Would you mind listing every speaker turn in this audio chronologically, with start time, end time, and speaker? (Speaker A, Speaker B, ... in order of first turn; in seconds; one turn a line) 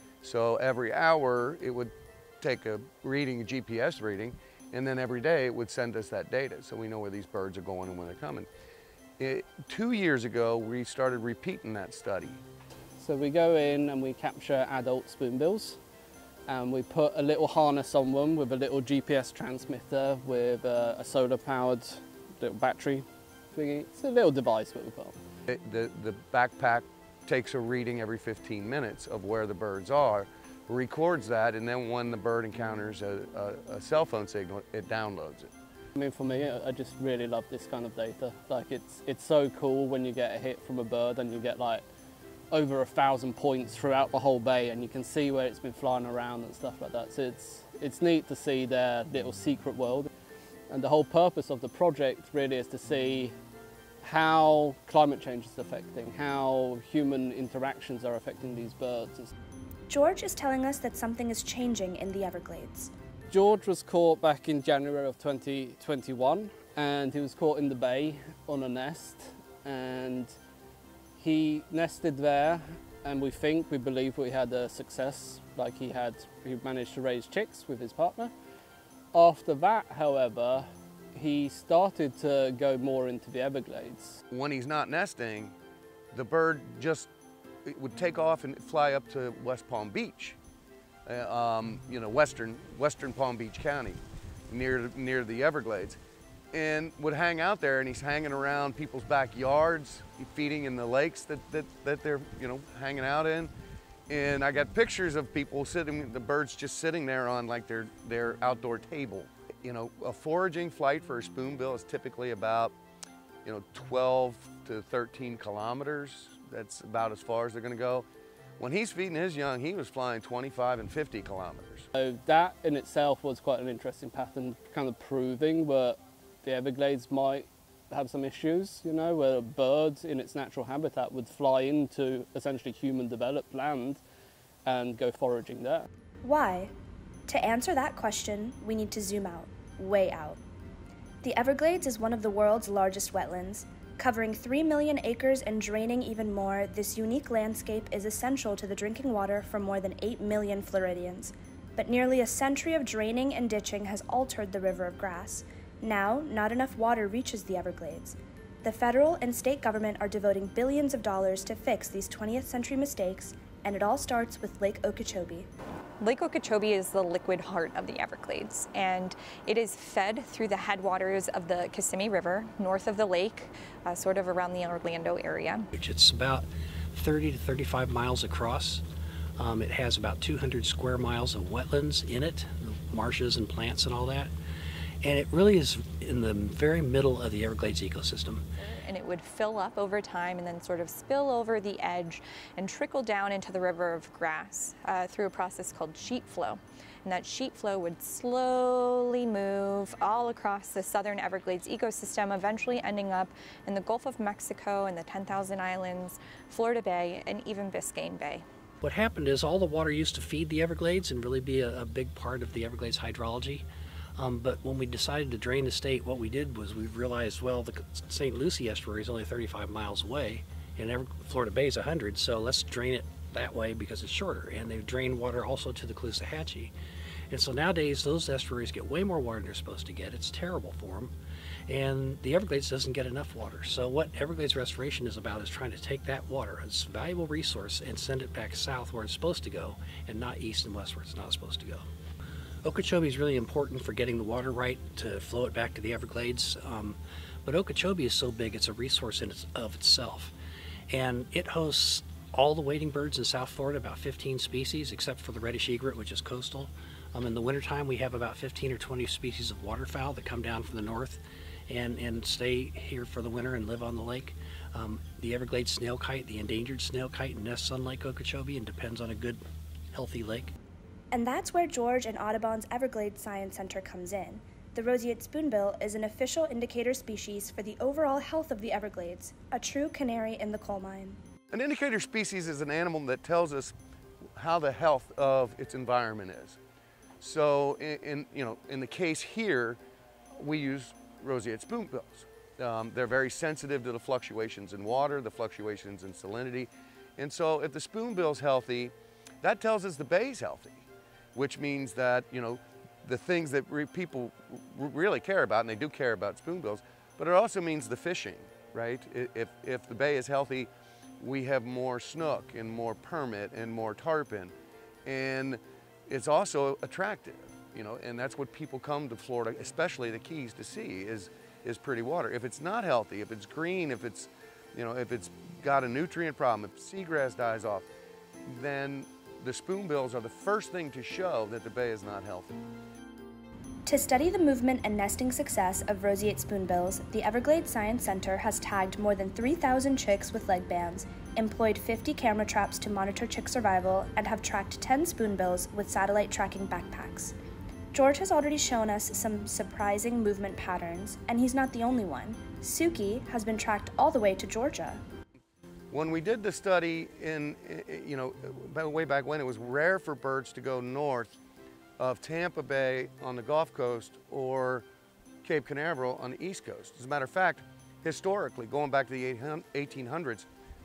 Speaker A: 0.2-8.5
Speaker A: 9.2-12.4
Speaker B: 13.0-15.8
Speaker B: 16.5-25.1
Speaker A: 25.5-35.5
Speaker B: 36.0-41.9
Speaker B: 42.5-50.1
Speaker B: 50.7-53.3
Speaker B: 54.0-59.3
Speaker C: 59.9-62.9
Speaker B: 63.3-70.3
Speaker B: 71.2-78.3
Speaker B: 79.1-84.2
Speaker A: 84.3-85.5
Speaker A: 86.1-87.1
Speaker A: 87.7-90.4
Speaker A: 91.1-96.0
Speaker A: 96.5-103.5
Speaker A: 104.1-112.8
Speaker A: 113.4-118.1
Speaker A: 118.6-121.9
Speaker B: 122.0-134.0
Speaker B: 134.7-135.9
Speaker C: 136.2-136.7
Speaker C: 137.3-140.4
Speaker C: 141.2-165.5
Speaker D: 166.0-175.7
Speaker E: 175.7-178.8
Speaker E: 179.4-184.3
Speaker E: 185.0-188.4
Speaker D: 188.6-208.4
Speaker E: 208.8-213.7
Speaker E: 214.2-226.7
Speaker E: 227.3-231.1
Speaker E: 231.7-241.8
Speaker E: 242.6-250.3
Speaker E: 250.9-269.4
Speaker E: 269.9-270.5
Speaker C: 271.1-281.2
Speaker A: 281.5-283.8
Speaker A: 284.4-286.6
Speaker A: 287.2-289.8
Speaker A: 290.4-314.5
Speaker A: 315.1-327.9
Speaker A: 328.5-332.6
Speaker C: 333.9-347.4
Speaker C: 347.9-355.0
Speaker A: 355.9-361.4
Speaker A: 362.0-364.9
Speaker A: 365.4-370.5